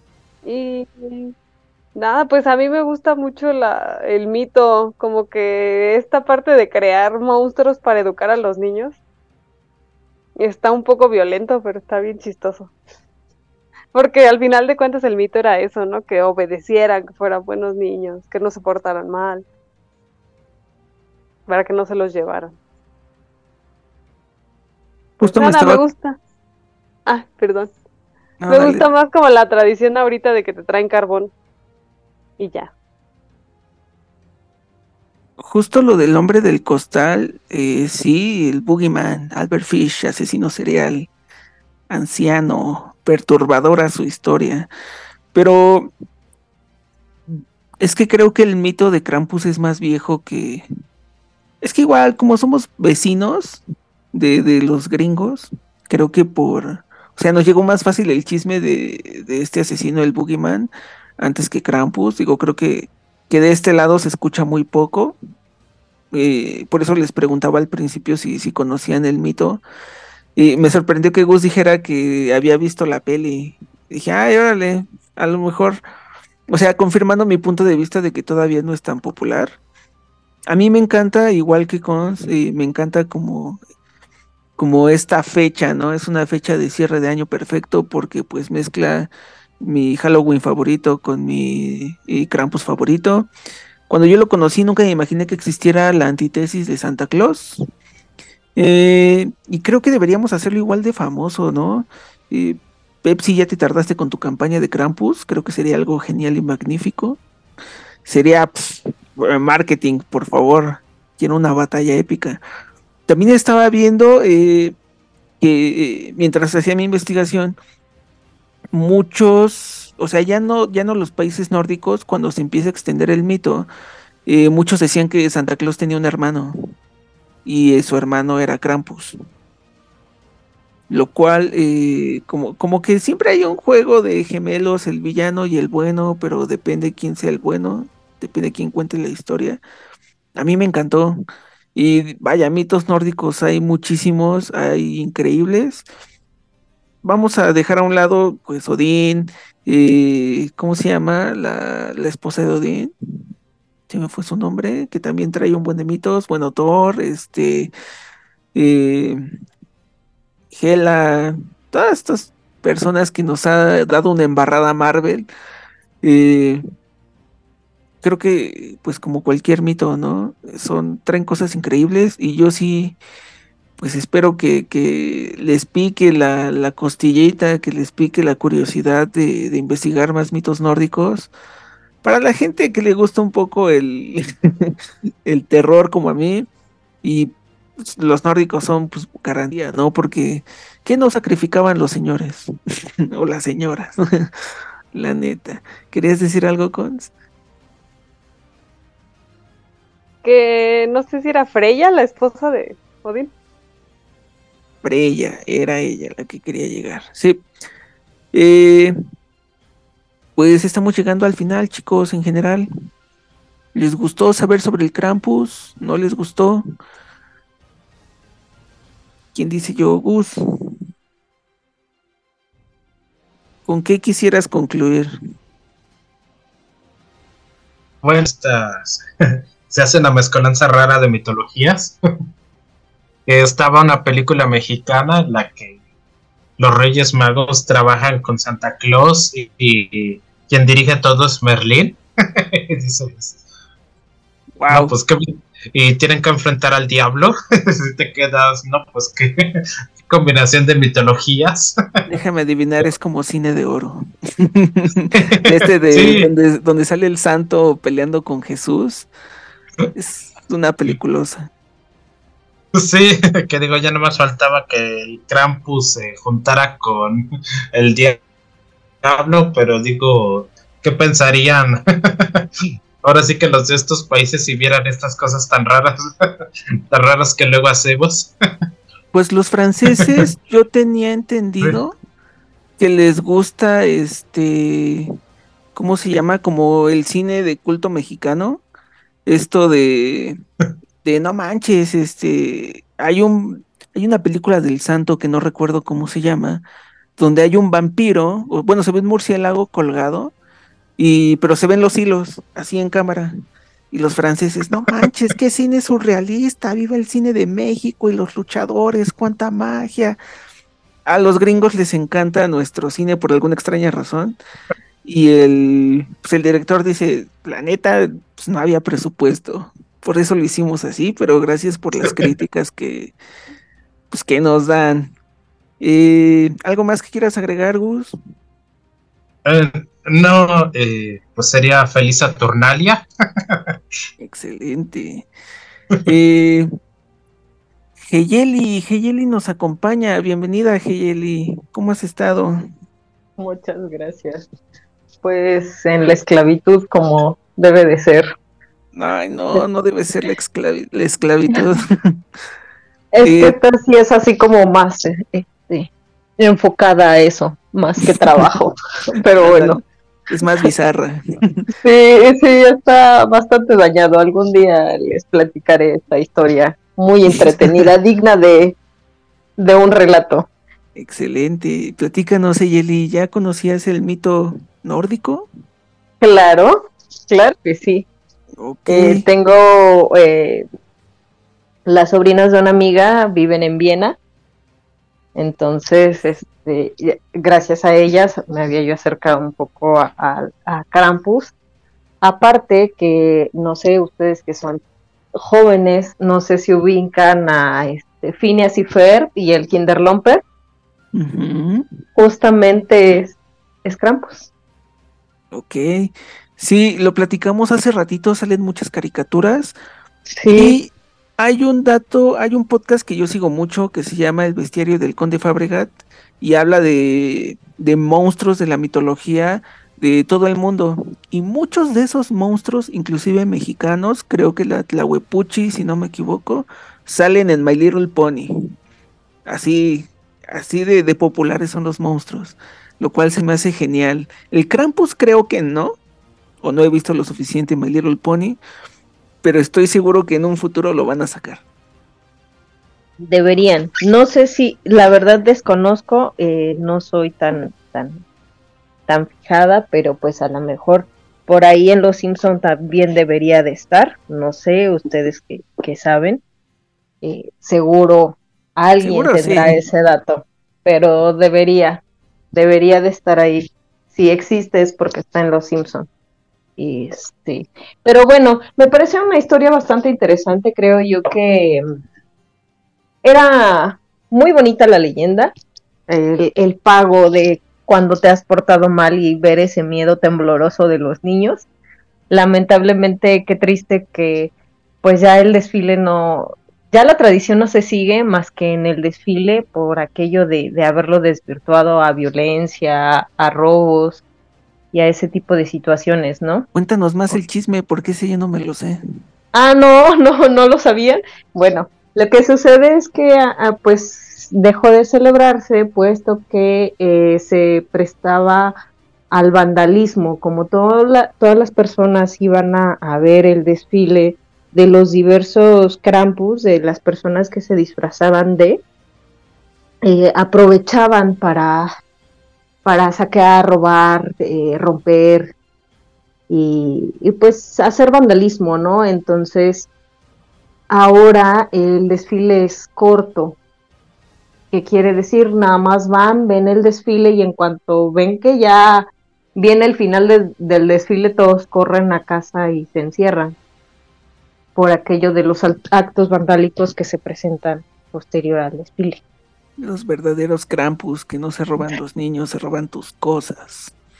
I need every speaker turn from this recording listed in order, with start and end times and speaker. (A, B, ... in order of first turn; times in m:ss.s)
0:00.4-0:01.3 A
0:01.9-0:09.0 A
0:10.4-0:12.7 A
0:13.9-0:19.4 A
0:21.5-0:22.6 A
0:25.2-0:25.8 B
0:25.2-0:26.2 A
0:27.0-0:27.7 A
0:28.4-0:28.8 B
0:28.5-0:31.3 A
0:32.4-0:32.7 A
0:35.4-0:41.1 B
0:41.9-0:44.7 B
0:45.3-0:45.9 B
0:47.8-0:50.6 B
0:51.6-1:05.2 B
1:06.1-1:09.6 B
1:10.4-1:15.8 B
1:16.5-1:19.6 B
1:20.5-1:23.6 B
1:24.6-1:33.3 B
1:33.9-1:37.6 B
1:38.6-1:47.2 B
1:48.0-1:52.4 B
1:53.1-1:54.8 B
1:55.4-1:57.6 B
1:58.7-2:03.7 B
2:04.2-2:06.6 B
2:07.4-2:09.2 B
2:10.9-2:19.6 B
2:20.4-2:21.2 B
2:21.7-2:25.8 B
2:27.0-2:32.9 B
2:33.9-2:37.7 B
2:38.5-2:39.3 B
2:40.5-2:45.3 B
2:46.0-2:46.6 B
2:48.0-2:53.0 B
2:53.8-3:01.3 B
3:02.0-3:06.5 B
3:07.0-3:12.5 B
3:13.1-3:14.3 B
3:14.9-3:17.1 B
3:20.2-3:23.3 A
3:24.8-3:27.4 B
3:28.3-3:28.9 B
3:30.4-3:32.7 B
3:33.7-3:36.7 B
3:39.3-3:40.8 B
3:43.6-3:45.1 B
3:48.0-3:49.0 C
3:49.7-3:52.0 C
3:53.3-3:55.8 C
3:56.6-4:03.4 C
4:04.6-4:04.9 B
4:04.7-4:09.5 C
4:10.0-4:11.7 C
4:12.1-4:19.1 B
4:15.2-4:16.3 C
4:19.9-4:21.5 B
4:22.7-4:28.2 C
4:29.0-4:32.5 C
4:33.0-4:36.3 C
4:36.9-4:38.3 C
4:39.1-4:42.0 B
4:42.8-4:45.1 B
4:45.7-4:48.6 B
4:49.2-4:50.4 B
4:51.0-4:56.6 B
4:57.2-5:00.3 B
5:01.0-5:03.3 B
5:03.9-5:10.2 B
5:11.1-5:14.4 B
5:15.0-5:23.1 B
5:24.1-5:25.1 B
5:25.8-5:28.1 B
5:29.4-5:33.6 C
5:34.2-5:35.3 B
5:36.0-5:36.7 B
5:38.1-5:42.6 B
5:43.4-5:44.4 D
5:45.2-5:48.3 D
5:48.9-5:52.0 B
5:53.1-5:59.8 D
5:53.2-5:53.6 B
5:58.2-5:58.4 B
5:59.4-5:59.8 B
6:00.3-6:01.7 B
6:01.8-6:08.8 D
6:07.3-6:07.9 B
6:09.6-6:10.5 D
6:10.9-6:15.5 B
6:16.2-6:18.1 D
6:18.6-6:19.3 B
6:18.9-6:20.6 D
6:21.8-6:24.2 D
6:25.4-6:31.5 D
6:32.2-6:34.8 D
6:35.4-6:40.4 D
6:41.1-6:42.0 B
6:42.2-6:44.5 D
6:45.5-6:49.8 B
6:50.3-6:50.8 D
6:50.6-7:08.5 B
7:09.4-7:16.0 B
7:16.6-7:18.6 B
7:19.4-7:21.6 B
7:23.2-7:28.2 D
7:29.1-7:36.4 D
7:37.2-7:46.1 D
7:39.0-7:39.8 B
7:46.8-7:51.8 D
7:53.2-7:55.5 D
7:56.1-8:01.6 D
8:02.3-8:04.5 D
8:05.0-8:14.2 D
8:14.9-8:16.6 D
8:16.7-8:19.0 B
8:19.5-8:28.7 D
8:29.3-8:38.8 D
8:40.0-8:41.9 D
8:42.8-8:45.5 D
8:46.5-8:49.9 D
8:50.9-8:53.6 D
8:54.7-9:03.5 D
9:04.7-9:09.2 D
9:09.8-9:13.9 B